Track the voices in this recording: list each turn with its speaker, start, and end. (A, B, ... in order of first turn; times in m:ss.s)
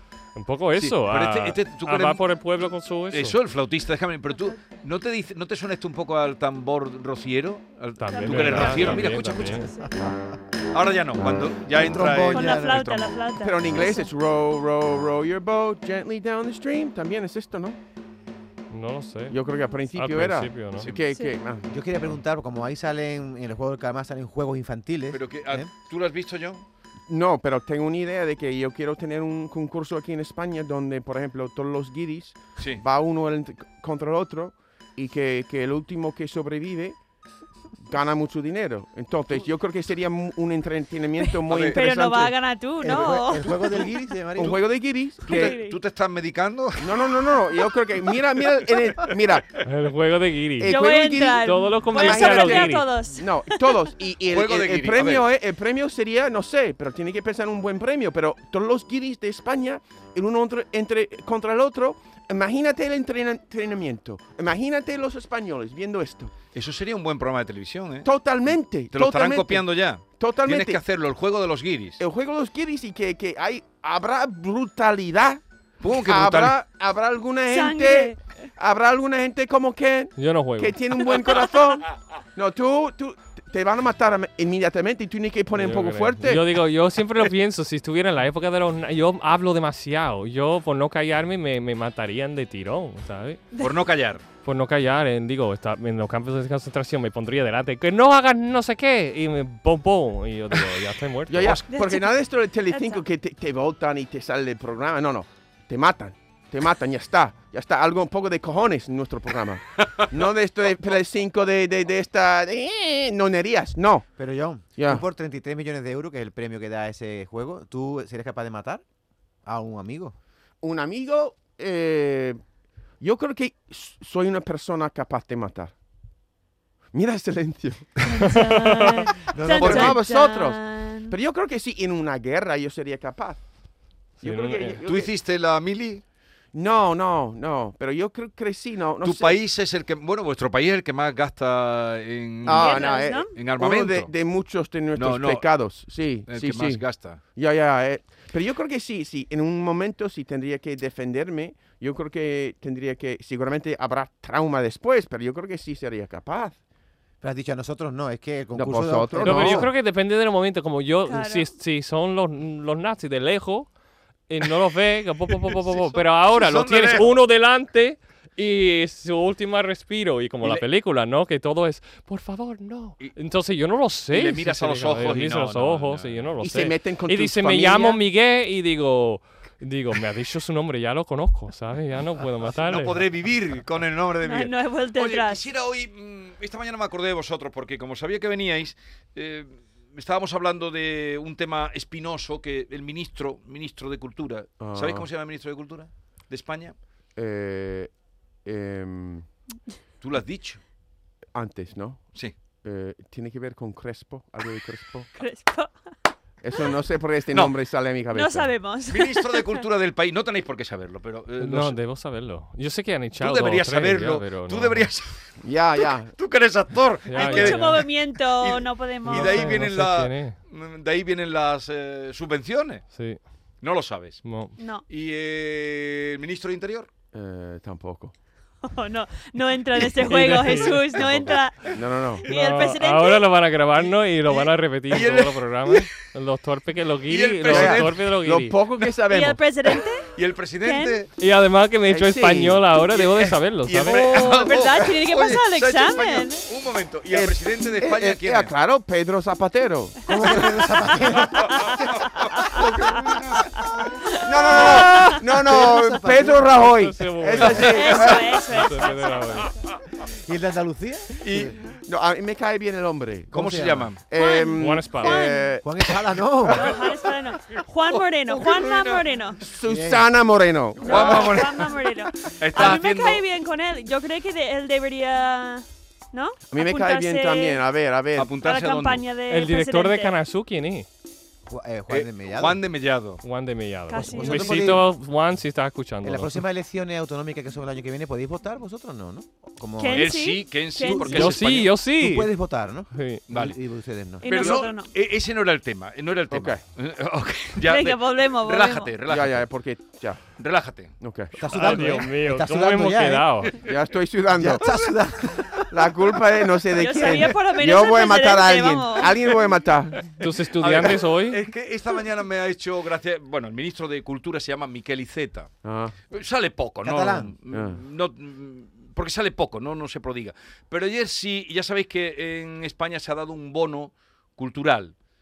0:00.4-0:03.4 A
0:00.8-0:02.4 B
0:03.1-0:09.7 B
0:08.0-0:09.7 A
0:08.1-0:09.9 C
0:10.7-0:13.1 B
0:11.7-0:13.0 D
0:12.3-0:14.1 C
0:13.4-0:17.8 E
0:18.7-0:19.4 A
0:19.3-0:21.7 E
0:19.9-0:20.9 A
0:20.8-0:21.0 B
0:21.7-0:25.7 D
0:25.1-0:26.6 B
0:27.1-0:37.0 E
0:37.8-0:42.4 E
0:41.2-0:43.5 C
0:41.5-0:41.8 B
0:42.8-0:44.6 D
0:43.5-0:43.8 B
0:44.4-0:45.6 E
0:45.3-0:45.8 C
0:45.3-0:47.1 B
0:46.8-0:49.5 E
0:49.6-0:52.9 A
0:50.6-1:06.3 E
0:50.6-0:53.7 C
0:54.3-0:55.2 B
1:06.5-1:08.1 B
1:08.0-1:10.8 E
1:08.9-1:12.0 B
1:12.0-1:15.4 E
1:15.8-1:16.6 B
1:16.0-1:26.5 E
1:17.5-1:18.2 C
1:20.2-1:20.8 A
1:25.5-1:33.4 A
1:33.6-1:34.2 B
1:34.4-1:41.6 A
1:41.3-1:54.1 E
1:41.7-1:42.1 C
1:42.7-1:43.0 C
1:54.2-1:58.8 D
1:54.8-1:55.0 E
1:59.4-2:00.1 D
2:00.6-2:02.4 E
2:03.0-2:05.7 E
2:06.9-2:08.3 E
2:08.0-2:11.2 C
2:08.5-2:08.9 A
2:09.3-2:10.0 D
2:09.5-2:13.4 E
2:09.6-2:09.9 B
2:14.2-2:14.8 A
2:14.2-2:15.1 E
2:14.8-2:16.0 B
2:16.5-2:19.4 E
2:19.0-2:24.1 B
2:22.4-2:26.8 E
2:22.5-2:23.4 C
2:24.9-2:25.4 B
2:26.3-2:27.2 B
2:27.3-2:36.6 E
2:37.2-2:39.7 D
2:38.5-2:39.7 E
2:39.2-2:43.7 A
2:41.1-2:41.5 C
2:44.3-3:03.0 A
2:45.5-2:47.1 B
2:54.1-2:56.3 B
2:56.4-2:58.0 E
3:02.4-3:16.7 B
3:04.2-3:05.4 C
3:14.6-3:15.1 E
3:17.2-3:17.9 E
3:18.4-3:19.3 E
3:20.0-3:20.6 B
3:21.3-3:25.1 E
3:25.1-3:25.7 C
3:26.4-3:28.5 E
3:28.1-3:29.5 C
3:28.9-3:31.8 B
3:31.4-3:34.9 A
3:33.2-3:35.3 B
3:35.4-3:36.1 E
3:36.1-3:42.8 B
3:37.1-3:37.8 A
3:37.1-3:39.6 C
3:39.0-3:40.4 A
3:42.9-3:43.2 A
3:43.6-3:44.2 B
3:44.2-3:44.5 A
3:44.6-3:44.8 C
3:44.9-3:46.9 B
3:47.1-3:48.1 E
3:48.6-3:53.3 C
3:50.0-3:50.8 A
3:51.0-3:51.4 B
3:51.7-3:52.2 E
3:52.3-3:58.6 A
3:53.8-3:55.9 B
3:57.1-3:58.0 B
3:57.5-3:59.8 E
3:59.1-4:00.1 C
4:00.1-4:01.1 B
4:00.6-4:01.0 C
4:01.2-4:04.0 A
4:01.9-4:02.6 E
4:02.8-4:08.5 B
4:03.8-4:06.4 C
4:07.1-4:10.4 E
4:10.1-4:11.8 D
4:11.3-4:13.6 B
4:14.0-4:15.2 C
4:14.2-4:18.4 E
4:14.6-4:16.6 D
4:16.5-4:19.5 A
4:17.4-4:17.7 B
4:17.6-4:19.5 C
4:20.2-4:21.5 D
4:21.2-4:21.6 B
4:21.8-4:23.3 E
4:23.3-4:23.9 D
4:23.3-4:24.0 B
4:24.1-4:25.9 E
4:24.1-4:25.5 C
4:24.6-4:25.3 A
4:25.6-4:26.7 D
4:26.5-4:29.4 C
4:26.5-4:26.9 B
4:27.5-4:29.1 B
4:29.4-4:31.5 E
4:29.6-4:30.0 D
4:30.8-4:37.6 C
4:30.8-4:33.2 B
4:36.5-4:38.4 E
4:38.2-4:39.0 B
4:38.4-4:40.1 C
4:39.3-4:40.9 A
4:41.5-4:42.6 D
4:41.9-4:43.2 B
4:43.2-4:46.4 A
4:43.9-4:44.7 C
4:44.0-4:44.8 D
4:46.0-4:50.3 D
4:49.8-4:51.3 C
4:49.9-4:51.7 B
4:50.9-4:51.4 D
4:51.0-4:52.3 A
4:52.0-4:54.5 D
4:52.9-4:53.2 A
4:53.3-4:53.6 B
4:54.2-4:54.9 C
4:54.2-4:59.4 B
4:56.3-4:56.6 E
4:57.6-4:59.0 C
4:59.0-5:00.2 E
5:00.4-5:01.0 B
5:01.0-5:01.3 E
5:01.4-5:03.5 D
5:01.5-5:03.5 A
5:03.6-5:04.7 E
5:04.3-5:05.8 D
5:05.7-5:10.2 E
5:06.8-5:09.2 C
5:10.2-5:11.4 A
5:10.6-5:15.5 B
5:15.6-5:15.9 E
5:16.1-5:24.9 B
5:16.8-5:17.3 D
5:17.5-5:17.8 E